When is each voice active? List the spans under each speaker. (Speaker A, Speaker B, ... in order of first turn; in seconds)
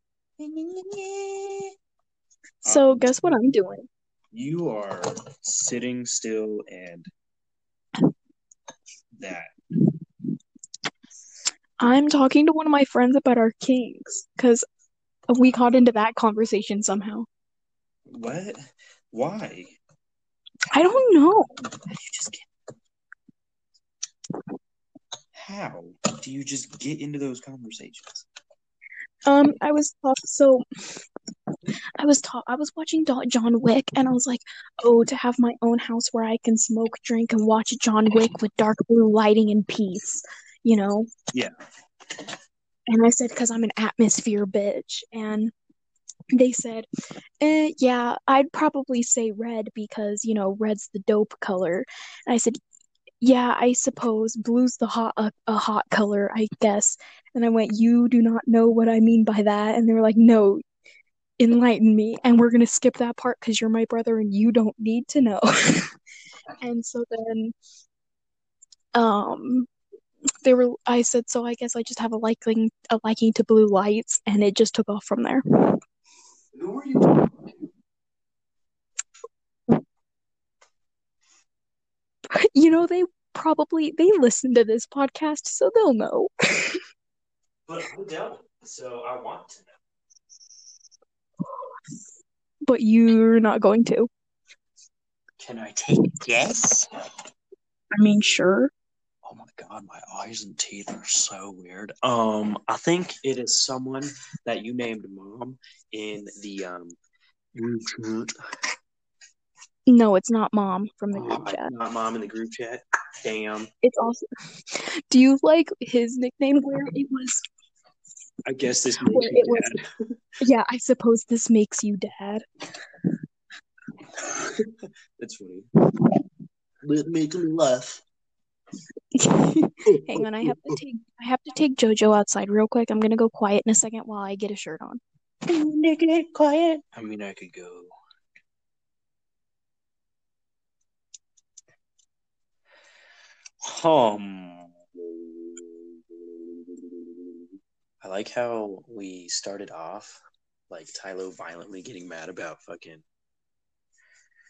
Speaker A: 0.4-1.7, 135.5-136.8
Speaker B: 2.6-3.8, 11.8-14.6, 15.3-17.3, 20.7-21.5, 29.3-30.6, 32.0-41.1, 42.9-45.5, 46.3-46.9, 47.4-52.6, 53.2-60.6, 61.4-65.9, 66.6-67.5, 68.9-69.7, 70.4-75.8, 82.3-86.8, 92.7-94.1, 98.0-98.7, 109.9-111.7, 113.8-117.4, 119.1-119.7, 120.4-122.4, 129.1-135.0
Speaker C: 2.6-3.1, 4.3-7.1, 9.2-9.5, 18.1-19.8, 25.3-28.2, 76.5-77.5, 87.7-89.7, 95.4-96.6, 99.2-107.0, 107.5-108.3, 111.1-113.7, 118.4-120.2, 124.5-125.7, 126.8-128.0, 129.8-130.8, 136.9-137.9, 143.6-147.4, 148.0-153.0